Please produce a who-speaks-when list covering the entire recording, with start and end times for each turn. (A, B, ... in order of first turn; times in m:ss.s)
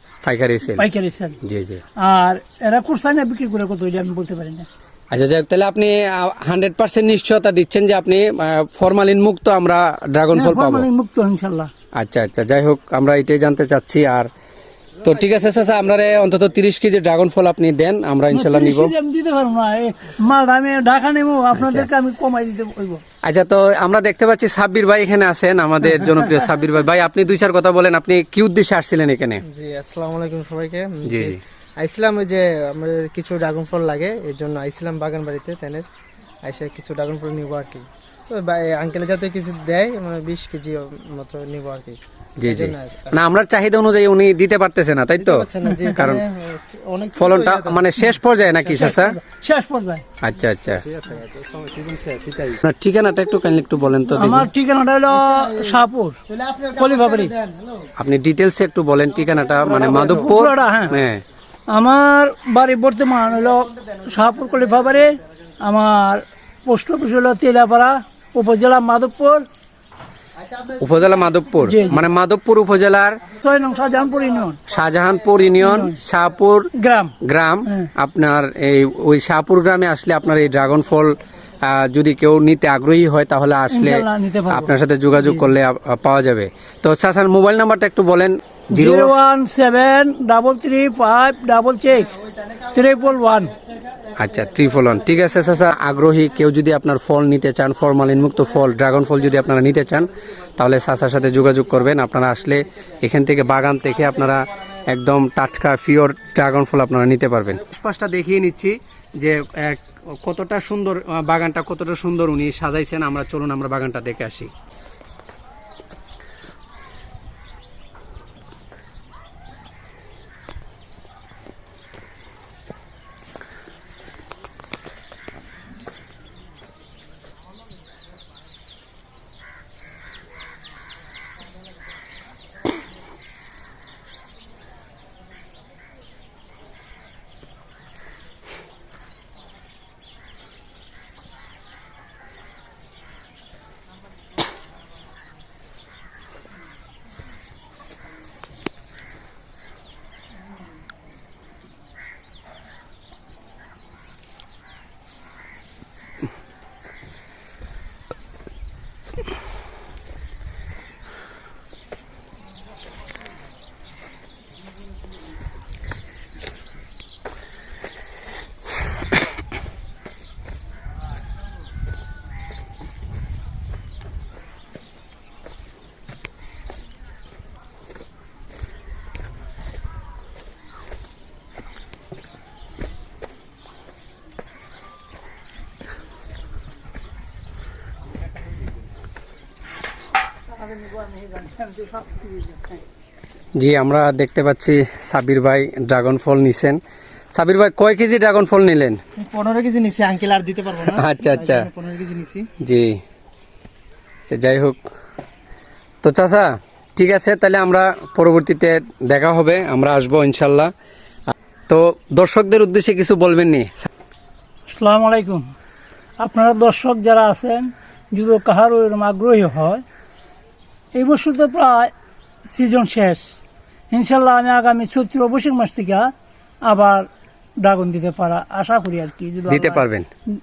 0:00.2-0:00.8 A
0:00.7-0:01.4 B
0:01.4-0:01.8 A
0:02.0-0:04.7 B
0:05.1-0:10.9 A
0:10.3-0:11.7 B
0:11.9-0:14.3 A
0:15.0-0:18.9 A
0:18.3-0:23.0 B
0:21.5-0:21.9 A
0:23.2-0:29.4 A
0:26.0-0:26.4 B
0:29.5-0:35.8 C
0:31.0-0:31.4 A
0:36.4-0:43.2 C
0:42.4-0:46.2 A
0:45.2-0:48.0 C
0:47.2-0:49.2 A
0:48.7-0:50.0 B
0:50.2-0:50.8 A
0:50.7-0:52.5 C
0:52.5-0:54.5 A
0:54.2-0:56.2 B
0:55.1-0:57.9 C
0:56.8-0:57.3 B
0:58.0-1:01.2 A
0:59.6-1:00.2 C
1:00.0-1:01.0 B
1:01.7-1:09.4 B
1:10.8-1:13.2 A
1:11.6-1:12.1 B
1:13.4-1:14.6 B
1:14.7-1:16.7 A
1:15.6-1:16.0 B
1:16.7-1:17.1 B
1:17.2-1:29.1 A
1:23.7-1:25.5 B
1:28.7-1:33.5 B
1:32.2-1:32.7 C
1:33.5-1:35.2 C
1:34.2-1:54.5 A
3:10.6-3:12.8 B
3:13.6-3:16.8 A
3:17.3-3:19.0 A
3:19.2-3:22.5 C
3:20.9-3:21.7 A
3:22.6-3:23.0 A
3:24.3-3:24.8 A
3:26.0-3:30.7 A
3:31.7-3:33.9 A
3:34.7-3:35.5 B
3:36.2-3:39.8 B
3:41.0-3:41.9 B
3:42.5-3:43.2 B
3:43.9-3:46.1 B
3:46.6-3:47.0 B
3:47.6-3:49.8 B
3:49.5-3:50.1 A